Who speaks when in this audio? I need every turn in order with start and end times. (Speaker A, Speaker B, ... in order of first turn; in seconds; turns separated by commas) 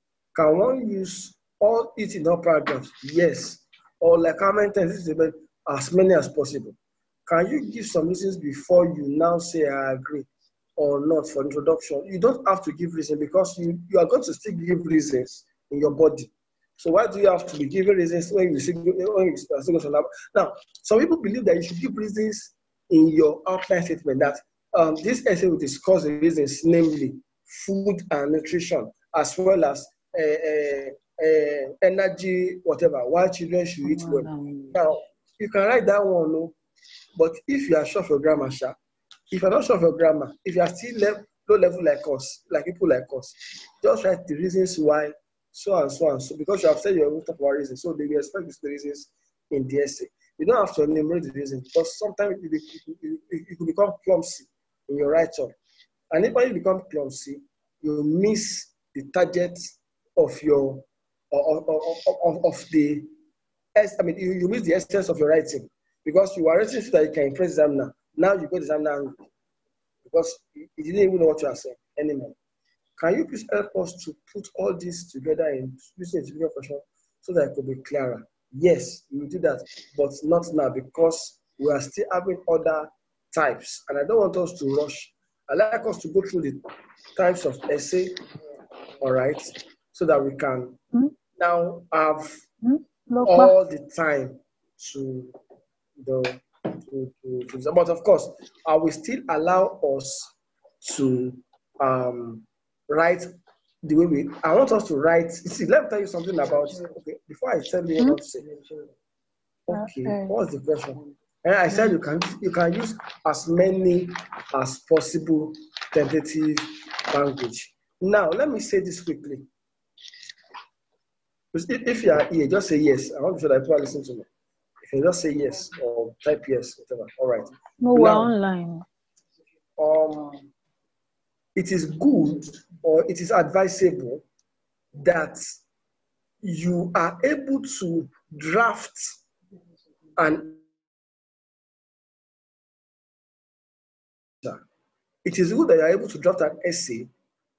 Speaker A: 0.3-10.3, Speaker A: 10.8-36.6, Speaker A: 37.2-38.8, Speaker A: 39.3-55.5, Speaker A: 56.1-63.1, Speaker A: 63.8-69.2, Speaker A: 70.0-72.3, Speaker A: 73.0-86.6, Speaker A: 87.2-88.2, Speaker A: 89.0-90.8, Speaker A: 91.4-92.5, Speaker B: 92.6-93.5, Speaker A: 93.2-95.4, Speaker A: 96.0-103.3, Speaker A: 103.8-108.6, Speaker A: 109.7-119.5, Speaker B: 109.7-110.3, Speaker A: 121.5-124.3, Speaker A: 124.8-128.3, Speaker B: 127.8-128.8, Speaker A: 129.8-130.5, Speaker A: 131.6-134.2, Speaker A: 135.0-135.4, Speaker A: 136.4-139.0, Speaker A: 140.2-140.6, Speaker A: 145.2-147.1